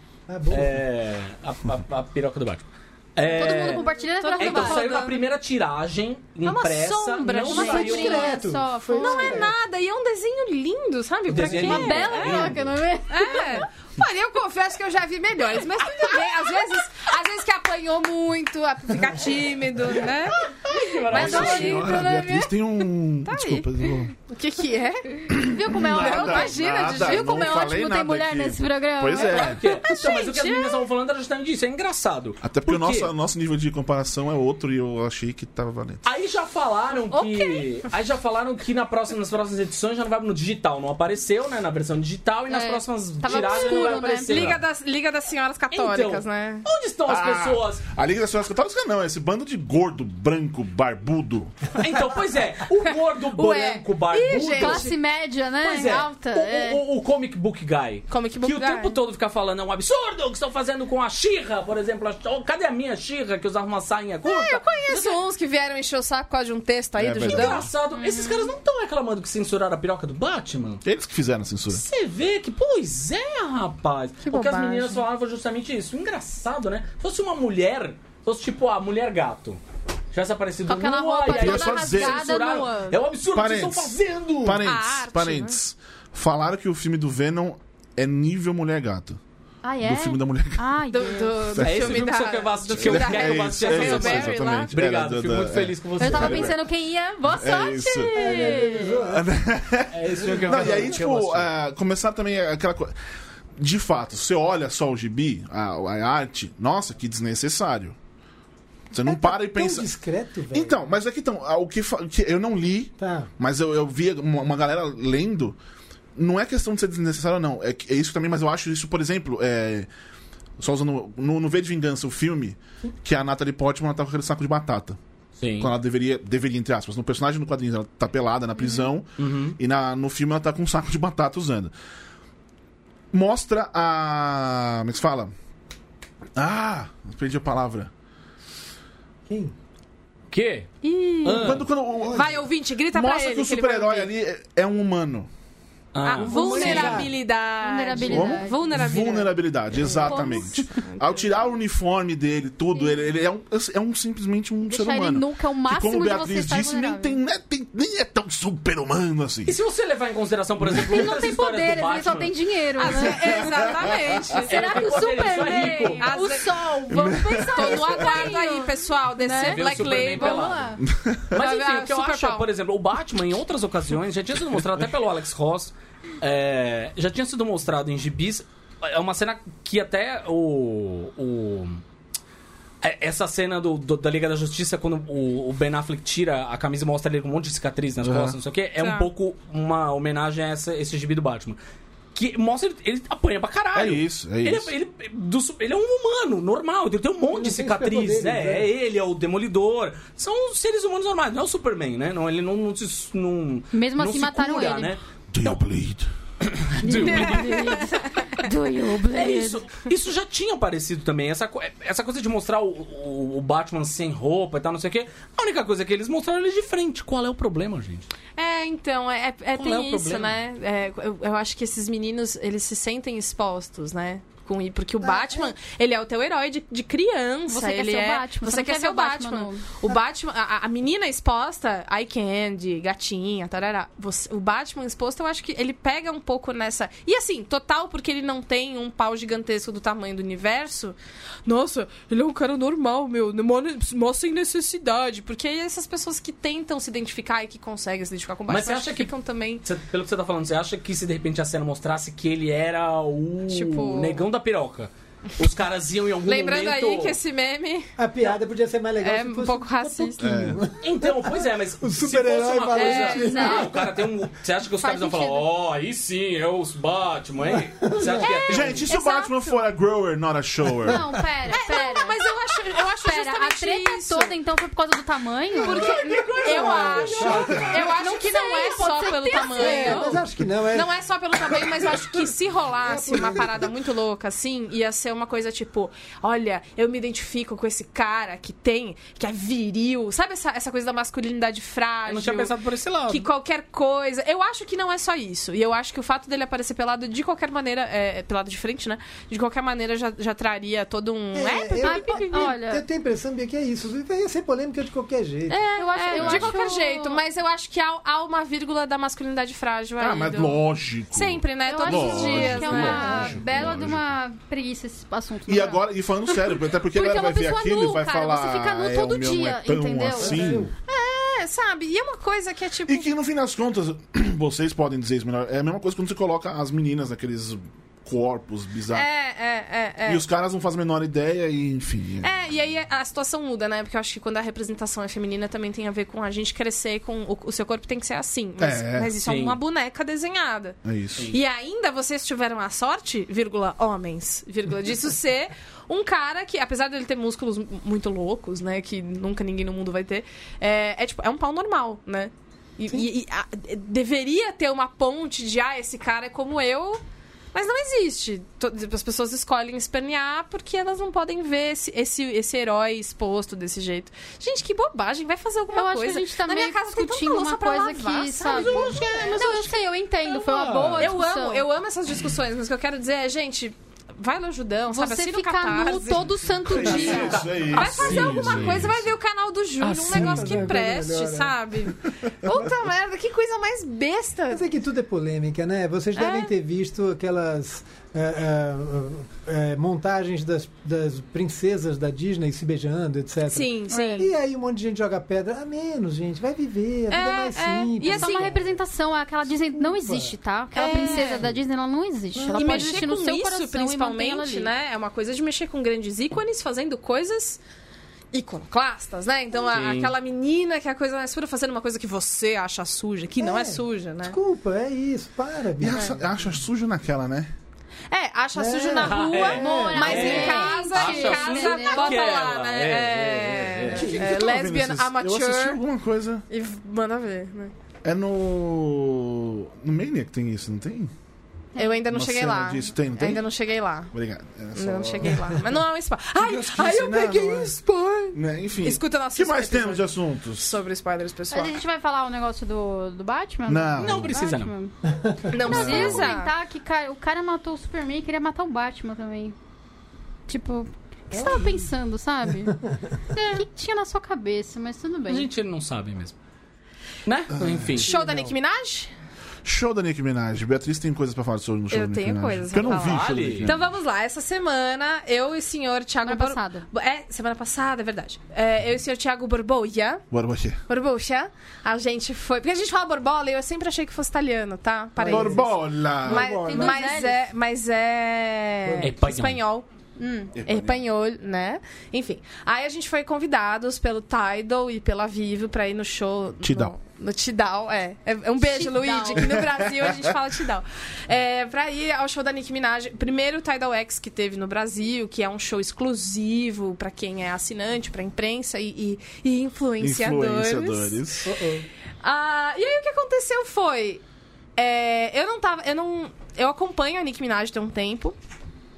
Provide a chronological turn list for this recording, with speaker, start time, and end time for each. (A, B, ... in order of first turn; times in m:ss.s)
0:00.3-0:00.8 A
0:00.5-0:08.4 B
0:03.2-0:05.0 C
0:03.2-0:05.2 D
0:06.4-0:12.6 D
0:07.5-0:09.4 C
0:07.5-0:09.5 A
0:11.3-0:12.7 B
0:11.4-0:13.6 C
0:13.1-0:20.4 D
0:19.9-0:22.0 B
0:21.1-0:25.3 D
0:21.1-0:24.1 E
0:25.3-0:29.7 E
0:25.4-0:29.5 C
0:25.9-0:27.7 D
0:29.2-0:33.1 B
0:29.4-0:30.8 D
0:32.4-0:36.0 E
0:36.0-0:44.6 B
0:37.0-0:37.8 D
0:42.5-0:44.5 C
0:43.2-0:46.6 D
0:45.7-0:47.8 B
0:47.1-0:51.7 E
0:51.7-0:54.9 B
0:53.3-0:54.9 D
0:54.5-0:56.8 C
0:55.6-1:05.2 B
0:58.1-0:59.0 D
1:04.2-1:08.5 D
1:07.0-1:07.6 E
1:07.2-1:10.8 B
1:10.8-1:11.8 E
1:11.7-1:19.6 B
1:14.2-1:15.0 D
1:20.1-1:24.6 B
1:20.7-1:22.7 D
1:20.7-1:23.0 C
1:21.3-1:22.3 E
1:23.3-1:29.2 E
1:24.6-1:25.6 D
1:29.6-1:31.5 C
1:29.8-1:30.6 E
1:30.9-1:34.8 D
1:31.5-1:32.2 E
1:31.6-1:36.6 B
1:32.7-1:36.6 E
1:36.0-1:39.0 C
1:37.3-1:42.9 E
1:38.1-1:39.3 A
1:39.9-1:41.5 B
1:40.2-1:41.0 A
1:43.6-1:48.0 E
1:48.9-1:49.9 E
1:49.0-1:50.8 A
1:50.5-1:55.6 E
1:53.0-1:53.3 A
1:56.2-1:59.9 E
2:00.6-2:05.0 E
2:05.4-2:05.7 B
2:05.6-2:11.7 E
2:08.6-2:08.8 C
2:09.2-2:09.6 B
2:13.1-2:15.3 E
2:16.4-2:17.9 E
2:19.3-2:19.5 A
2:20.3-2:20.7 B
2:20.8-2:24.1 D
2:21.2-2:21.7 B
2:21.3-2:22.4 E
2:22.9-2:25.3 E
2:25.9-2:27.0 B
2:26.0-2:31.4 D
2:26.2-2:27.1 A
2:27.6-2:28.6 C
2:28.0-2:39.5 E
2:30.1-2:30.4 C
2:34.7-2:37.2 C
2:39.4-2:42.4 B
2:40.7-2:43.5 C
2:42.8-2:50.8 D
2:43.1-2:44.0 E
2:44.4-2:50.8 C
2:44.4-2:46.2 B
2:46.9-2:48.2 E
2:49.4-2:50.7 B
2:50.8-2:51.4 E
2:51.3-3:01.8 B
2:51.3-2:52.5 D
3:02.8-3:11.6 B
3:08.0-3:08.4 E
3:08.8-3:09.1 D
3:12.1-3:25.6 B
3:13.7-3:14.7 E
3:17.3-3:18.7 A
3:23.7-3:24.9 C
3:25.3-3:26.1 E
3:26.4-3:27.8 B
3:26.8-3:29.6 C
3:27.1-3:28.0 D
3:29.0-3:38.1 B
3:38.4-4:09.6 D
3:39.5-3:40.4 B
3:45.0-3:45.5 A
3:47.5-3:49.6 C
4:08.5-4:17.2 B
4:13.5-4:14.2 D
4:16.2-4:17.9 D
4:18.0-4:24.1 A
4:19.0-4:20.2 D
4:20.2-4:20.7 E
4:20.7-4:28.9 B
4:22.7-4:23.6 D
4:23.2-4:23.7 C
4:24.8-4:25.5 C
4:27.5-4:28.3 A
4:28.2-4:29.6 D
4:28.4-4:31.0 E
4:28.9-4:29.3 C
4:30.8-4:32.2 C
4:31.5-4:34.4 D
4:33.0-4:35.9 C
4:35.6-4:52.5 D
4:35.8-4:37.4 B
4:35.8-4:37.9 A
4:36.6-4:40.1 C
4:39.5-4:40.9 A
4:41.5-4:42.2 A
4:42.8-4:43.7 A
4:52.1-4:53.2 B
4:53.1-5:02.5 D
5:01.3-5:05.6 A
5:01.8-5:02.8 C
5:05.5-5:07.2 C
5:05.6-5:10.6 D
5:06.2-5:06.5 E
5:10.0-5:14.0 E
5:11.1-5:13.3 D
5:11.7-5:15.8 C
5:15.5-5:20.7 E
5:16.9-5:20.6 C
5:20.2-5:20.7 A
5:20.8-5:23.1 D
5:22.8-5:29.0 E
5:28.9-5:30.2 D
5:30.0-5:32.3 E
5:32.2-5:40.8 D
5:38.6-5:39.2 E
5:39.2-5:39.6 B
5:40.8-5:41.2 E
5:41.3-5:57.0 D
5:57.5-6:09.4 D
6:05.7-6:11.6 C
6:08.5-6:09.8 B
6:10.3-6:11.1 B
6:10.9-6:24.6 D
6:14.9-6:17.4 C
6:16.6-6:19.1 E
6:16.8-6:19.0 B
6:19.8-6:20.7 B
6:20.1-6:21.6 A
6:24.5-6:38.6 A
6:26.2-6:26.5 D
6:33.5-6:34.3 D
6:33.9-6:34.3 C
6:37.1-6:38.5 D
6:38.2-6:44.7 C
6:39.5-6:41.6 A
6:40.7-6:41.5 D
6:42.3-6:42.9 A
6:42.5-6:47.6 D
6:48.3-6:54.4 D
6:49.6-6:50.1 B
6:53.4-6:56.2 A
6:55.8-6:57.5 E
6:55.9-6:56.2 D
6:58.1-7:05.8 D
6:58.5-7:00.6 A
6:59.0-7:04.4 B
6:59.5-7:02.3 C
7:04.0-7:06.4 E
7:06.5-7:07.7 D
7:08.0-7:11.1 E
7:11.7-7:12.0 C
7:11.8-7:14.1 D
7:12.1-7:13.4 E
7:14.1-7:15.6 E
7:14.7-7:21.7 D
7:16.4-7:17.8 E
7:18.3-7:20.8 E
7:21.5-7:24.9 C
7:23.7-7:24.4 E
7:24.0-7:24.7 B
7:25.5-7:26.5 D
7:25.6-7:26.3 E
7:25.6-7:29.5 C
7:30.5-7:32.8 C
7:33.3-7:35.5 C
7:35.3-7:36.3 B
7:37.2-7:38.1 B
7:37.5-7:37.9 E
7:38.0-7:39.1 D
7:38.0-7:38.5 A
7:39.6-7:43.9 E
7:41.9-7:50.2 D
7:42.9-7:43.7 B
7:46.2-7:46.8 C
7:50.3-7:50.8 E
7:50.9-7:59.8 D
7:55.2-7:55.6 A
7:55.2-7:56.9 E
7:56.2-7:56.9 A
7:56.5-7:57.4 C
7:58.8-7:59.1 A
7:59.0-7:59.6 B
8:00.2-8:00.5 C
8:00.5-8:01.0 E
8:00.6-8:21.2 D
8:06.6-8:06.9 E
8:08.6-8:09.6 C
8:09.4-8:10.3 E
8:20.0-8:21.5 E
8:21.4-8:21.9 A
8:22.2-8:24.2 D
8:24.8-8:28.4 D